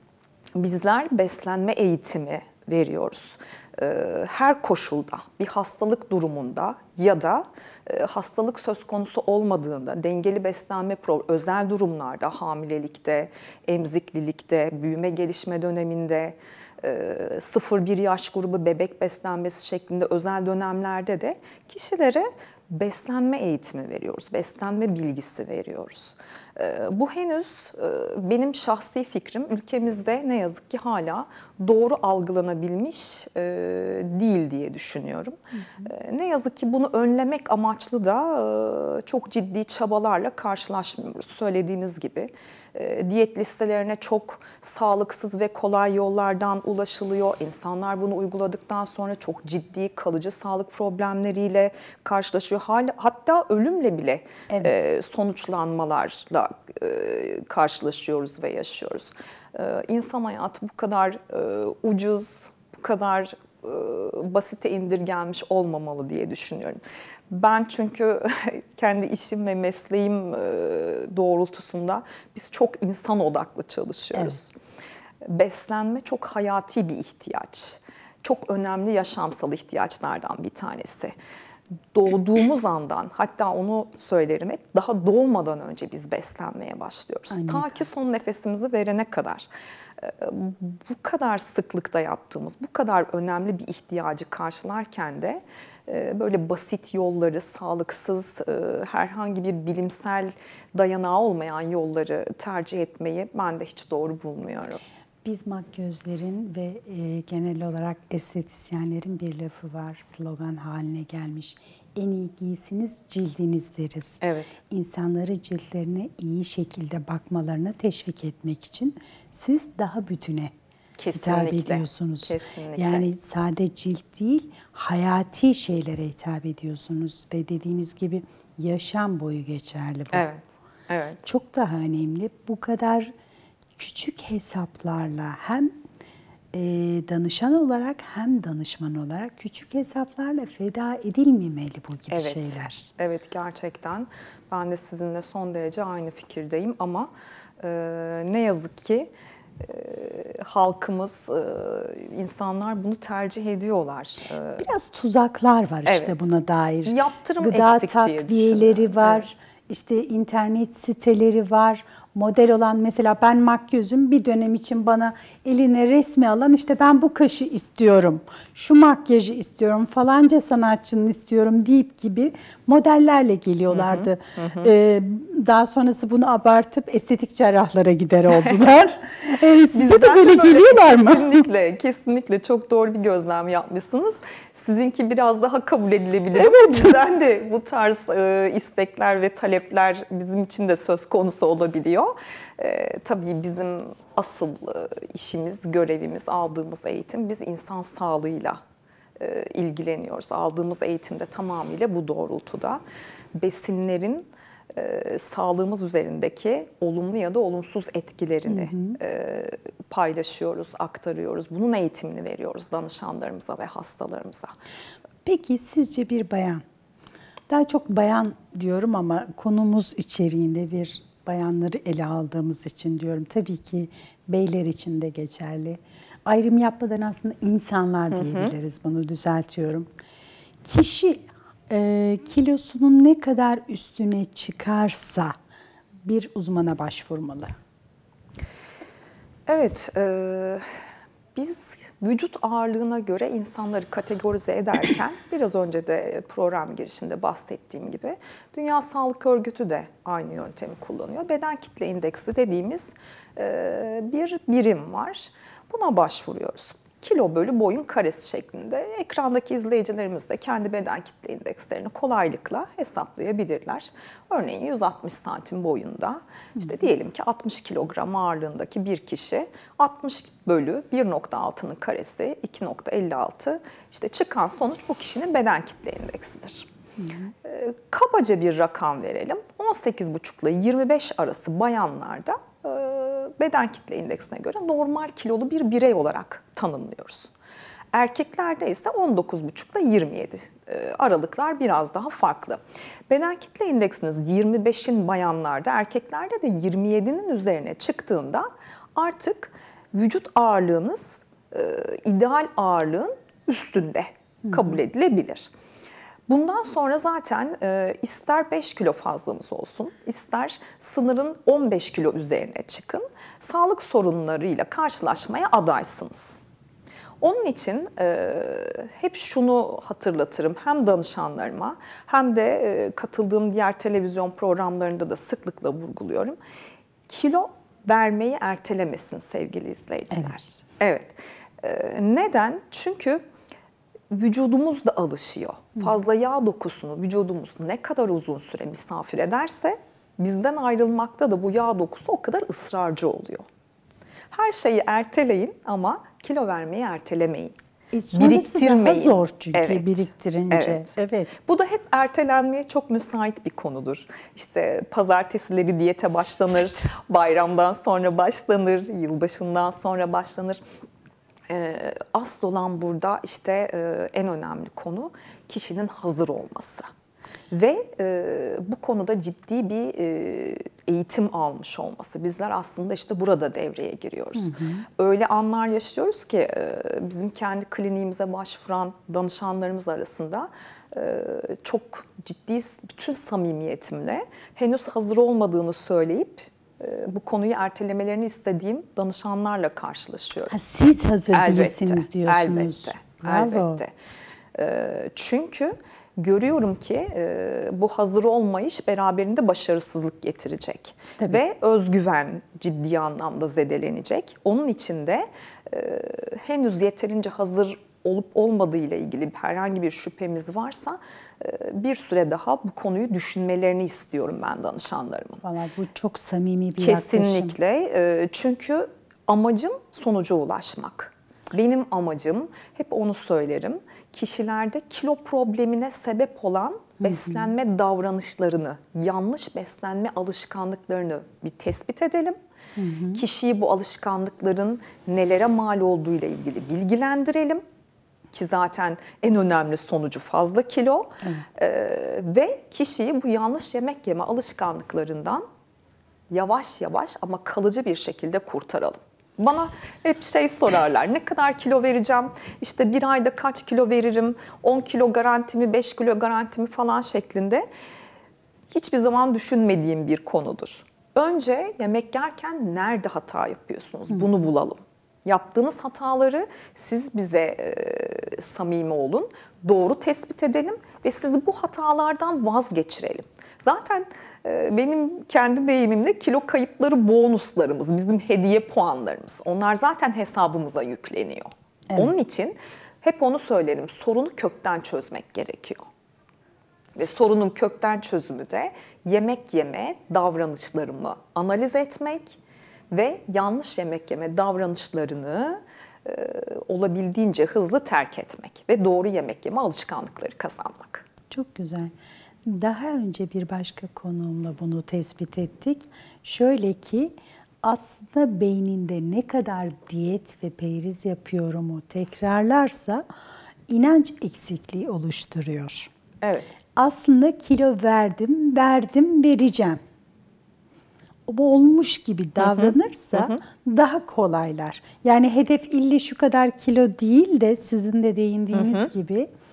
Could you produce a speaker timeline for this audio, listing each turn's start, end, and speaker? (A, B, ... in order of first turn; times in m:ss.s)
0:00.6-1:14.5 A
0:35.6-0:35.9 B
1:15.2-1:21.2 A
1:21.9-1:44.8 A
1:27.3-1:27.8 B
1:45.2-2:00.5 B
1:54.2-1:54.6 A
2:01.0-2:03.1 A
2:01.2-2:10.2 B
2:10.1-2:11.2 A
2:11.2-2:13.1 B
2:13.8-2:15.8 B
2:16.5-2:22.9 B
2:22.1-2:34.7 A
2:34.6-3:01.4 B
2:35.8-2:36.3 A
2:36.8-2:39.2 A
2:53.7-2:54.7 A
2:58.4-2:58.7 A
2:59.7-3:18.6 A
3:06.3-3:06.9 B
3:19.2-3:22.8 A
3:23.3-3:34.5 A
3:28.5-3:29.0 B
3:35.2-3:36.6 B
3:37.5-3:49.9 B
3:48.1-3:48.5 A
3:50.6-3:55.4 B
3:56.0-3:57.5 B
3:59.5-4:00.6 A
4:01.3-4:36.7 A
4:37.0-4:37.3 B
4:37.4-4:47.3 A
4:47.9-5:05.5 A
5:06.3-5:16.4 A
5:17.2-5:26.4 A
5:27.1-5:33.2 A
5:34.1-5:43.5 A
5:44.3-5:47.6 A
5:47.9-5:51.3 B
5:48.1-5:50.9 A
5:51.4-6:00.6 A
6:01.5-6:06.9 A
6:07.5-6:30.5 A
6:14.4-6:14.9 B
6:30.5-6:33.8 B
6:31.3-6:33.9 A
6:34.5-6:55.4 A
6:55.4-6:57.5 B
6:56.8-7:12.4 A
7:07.0-7:07.5 B
7:12.8-7:13.2 B
7:13.1-7:17.6 A
7:18.3-7:25.4 A
7:26.3-7:37.6 A
7:38.7-8:05.8 A
8:07.0-8:12.4 A
8:12.9-8:21.0 A
8:21.3-8:21.9 B
8:22.4-8:33.0 B
8:33.7-8:35.9 B
8:36.2-8:36.5 A
8:36.8-8:39.8 B
8:41.3-8:49.3 B
8:42.4-8:43.4 A
8:48.5-8:48.9 A